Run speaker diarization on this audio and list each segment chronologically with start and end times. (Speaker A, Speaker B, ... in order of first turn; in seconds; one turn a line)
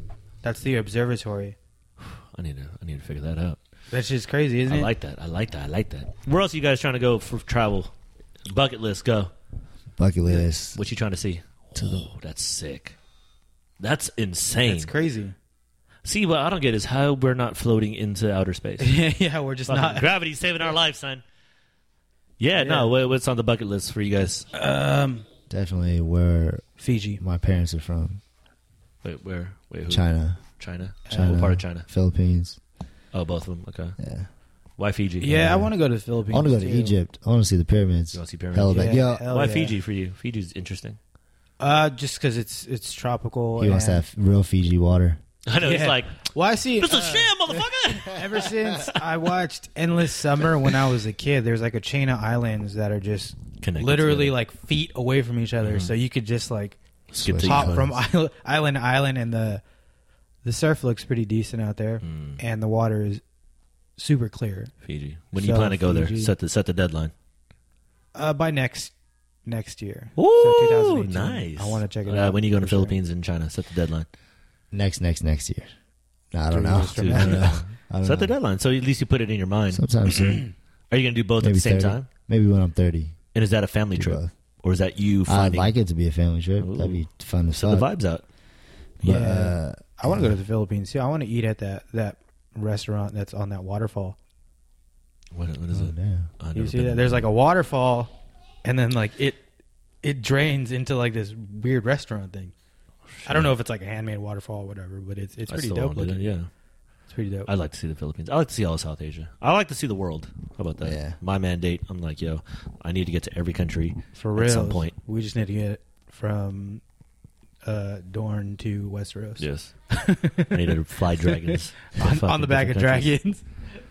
Speaker A: 0.4-1.6
Speaker B: 2.0-3.6
Speaker A: 3.9-4.9
Speaker B: 4.7-7.9
Speaker B: 8.5-9.3
Speaker C: 10.0-10.8
Speaker B: 10.3-12.9
Speaker C: 11.8-12.1
Speaker B: 13.8-14.9
Speaker A: 14.7-15.3
Speaker B: 16.1-18.9
Speaker A: 18.8-20.1
Speaker B: 19.7-21.2
Speaker B: 22.4-24.5
Speaker A: 22.6-22.9
Speaker A: 24.5-25.3
Speaker C: 25.5-26.6
Speaker A: 26.8-27.2
Speaker C: 27.2-28.2
Speaker B: 29.0-31.9
Speaker C: 29.9-30.4
Speaker A: 31.1-31.4
Speaker C: 31.1-32.6
Speaker B: 33.1-34.0
Speaker C: 34.0-34.3
Speaker B: 34.8-35.4
Speaker A: 35.2-37.0
Speaker C: 35.3-35.7
Speaker C: 36.3-39.3
Speaker B: 38.1-41.0
Speaker A: 38.7-39.8
Speaker A: 41.6-44.0
Speaker C: 43.6-45.2
Speaker B: 45.5-46.2
Speaker A: 45.6-56.8
Speaker B: 46.8-48.9
Speaker B: 53.6-54.4
Speaker B: 55.6-55.9
Speaker B: 57.1-57.8
Speaker C: 57.2-58.0
Speaker A: 57.4-59.6
Speaker A: 60.4-63.2
Speaker B: 62.0-62.4
Speaker A: 64.0-64.7
Speaker B: 64.8-67.1
Speaker A: 65.4-66.3
Speaker A: 68.2-68.9
Speaker A: 69.5-73.0
Speaker B: 70.2-74.1
Speaker C: 74.7-75.7
Speaker C: 76.3-78.3
Speaker A: 76.5-77.6
Speaker B: 77.0-80.4
Speaker C: 79.7-80.4
Speaker B: 80.9-82.1
Speaker C: 81.4-83.2
Speaker B: 83.3-85.7
Speaker C: 84.0-84.3
Speaker C: 85.3-87.9
Speaker B: 86.6-87.0
Speaker B: 87.5-88.2
Speaker C: 89.0-90.3
Speaker A: 89.0-94.2
Speaker B: 95.3-97.2
Speaker C: 95.7-96.3
Speaker A: 96.5-98.1
Speaker A: 98.6-99.4
Speaker A: 100.0-102.5
Speaker B: 103.2-103.5
Speaker A: 103.3-106.2
Speaker B: 105.5-106.5
Speaker A: 107.1-107.5
Speaker B: 107.5-114.9
Speaker C: 110.8-111.2
Speaker A: 114.1-116.8
Speaker A: 117.7-120.6
Speaker B: 119.4-119.7
Speaker B: 120.5-123.1
Speaker A: 121.2-123.4